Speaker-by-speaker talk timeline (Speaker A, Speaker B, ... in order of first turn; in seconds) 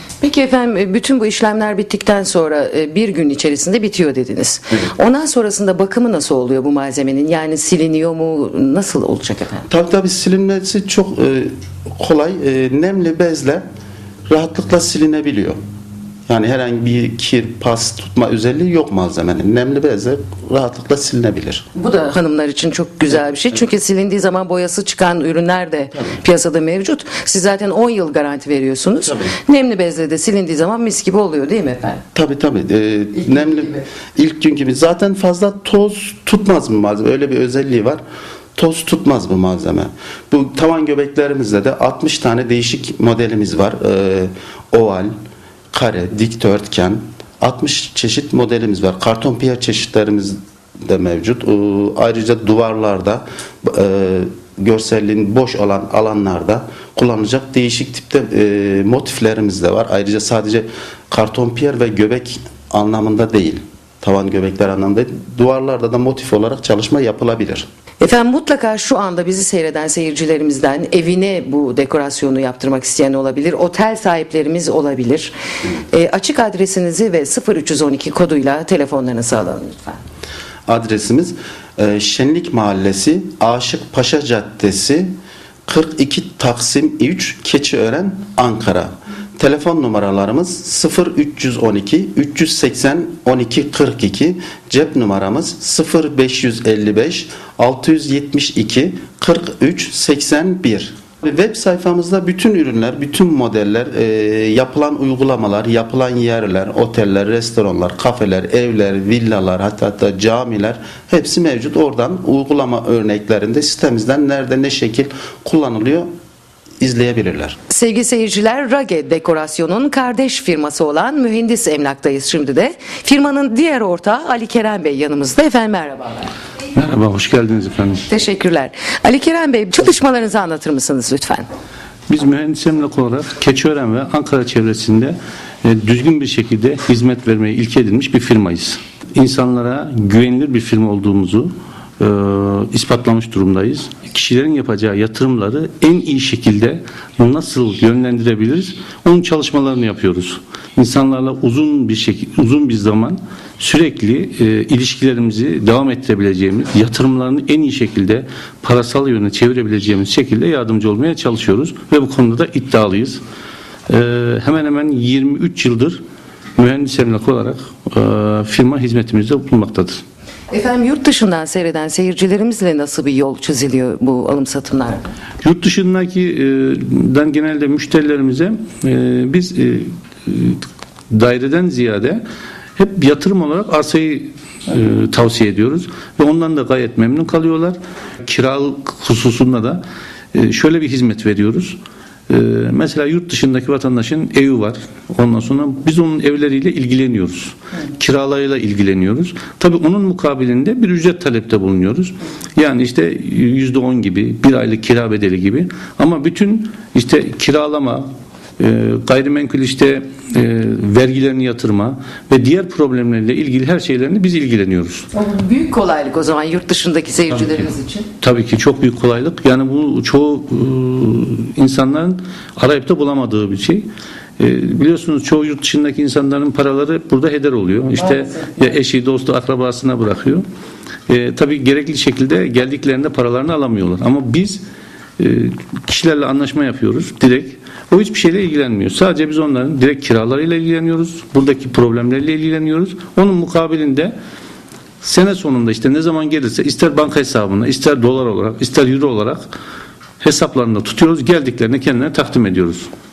Speaker A: 0.2-9.7, 21.8-32.0, 33.2-33.8, 68.0-75.3, 75.9-80.0, 117.7-126.3, 128.1-131.5, 170.5-175.1, 215.1-218.1
Speaker B: 9.7-13.6, 14.3-15.6, 16.3-21.6, 32.1-38.0, 38.6-45.1, 45.7-67.7, 80.7-85.1, 85.7-116.1, 116.8-117.6
Speaker C: 126.8-128.1, 132.1-163.2, 163.9-166.0, 166.6-170.0, 175.4-182.2, 182.8-189.8, 190.3-191.8, 192.3-208.1, 208.6-215.1, 218.2-223.9, 224.4-230.4, 231.1-234.6, 235.2-244.2, 245.0-249.5, 250.2-252.9